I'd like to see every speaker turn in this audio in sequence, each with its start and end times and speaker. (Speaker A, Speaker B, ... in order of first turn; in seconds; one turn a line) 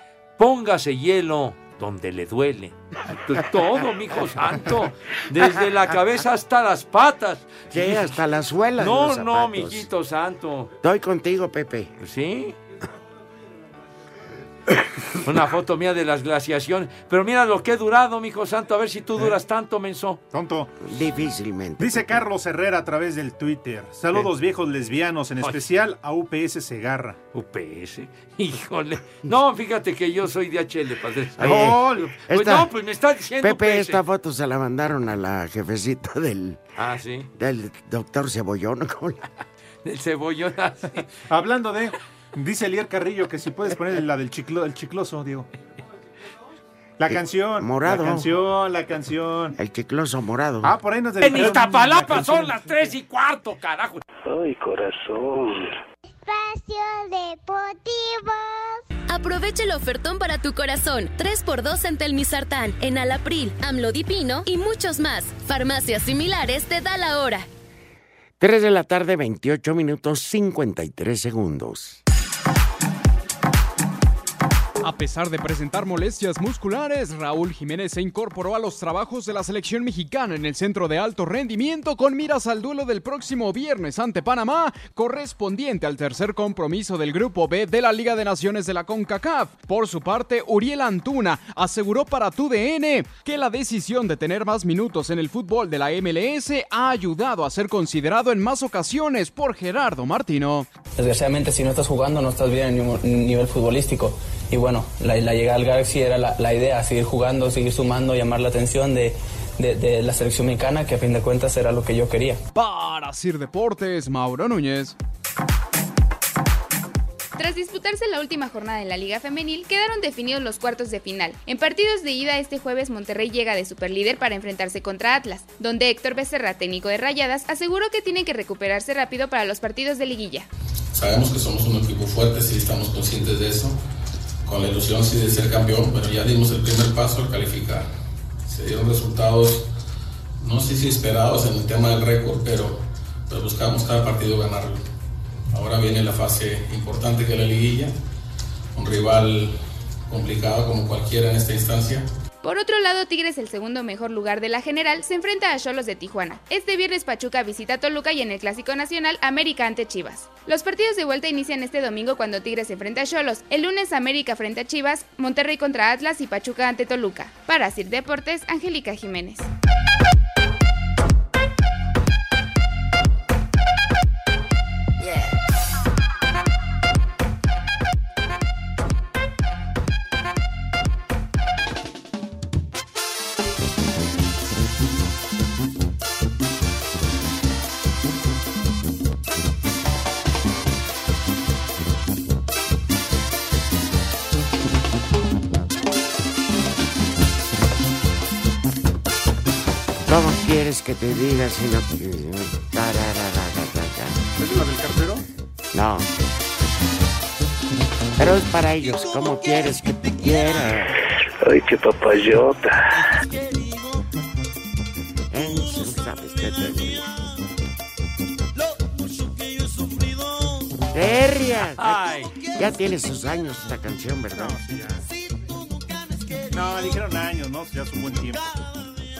Speaker A: 0.4-8.2
Speaker B: 7.7-9.9
Speaker A: 8.8-10.7
Speaker B: 10.8-12.0
Speaker A: 12.0-12.6
Speaker A: 15.2-20.2
Speaker C: 20.3-20.7
Speaker B: 20.8-22.2
Speaker C: 21.8-27.2
Speaker A: 27.3-34.0
Speaker B: 31.4-32.7
Speaker C: 31.4-32.0
Speaker B: 33.4-36.6
Speaker A: 36.8-37.3
Speaker B: 37.3-39.2
Speaker A: 39.8-41.1
Speaker C: 41.3-45.5
Speaker C: 47.0-49.5
Speaker B: 47.1-48.3
Speaker B: 49.5-50.7
Speaker C: 50.6-52.9
Speaker A: 51.2-54.0
Speaker D: 54.2-55.8
Speaker E: 56.1-58.8
Speaker F: 59.1-67.5
Speaker B: 68.4-72.0
Speaker G: 74.8-100.7
Speaker H: 101.0-112.4
Speaker G: 112.5-114.9
Speaker I: 117.4-130.5
Speaker J: 130.9-133.8
Speaker J: 134.4-137.9
Speaker J: 138.4-139.7
Speaker J: 140.4-144.8
Speaker J: 145.5-147.9
Speaker J: 148.7-149.6
Speaker J: 150.1-152.1
Speaker I: 152.4-169.5
Speaker B: 200.1-204.2
Speaker C: 204.4-205.2
Speaker B: 205.7-206.1
Speaker B: 208.2-210.9
Speaker D: 211.4-213.1
Speaker B: 215.3-217.1
Speaker B: 220.9-224.6
Speaker A: 221.8-222.4
Speaker C: 224.3-225.0
Speaker C: 226.5-228.4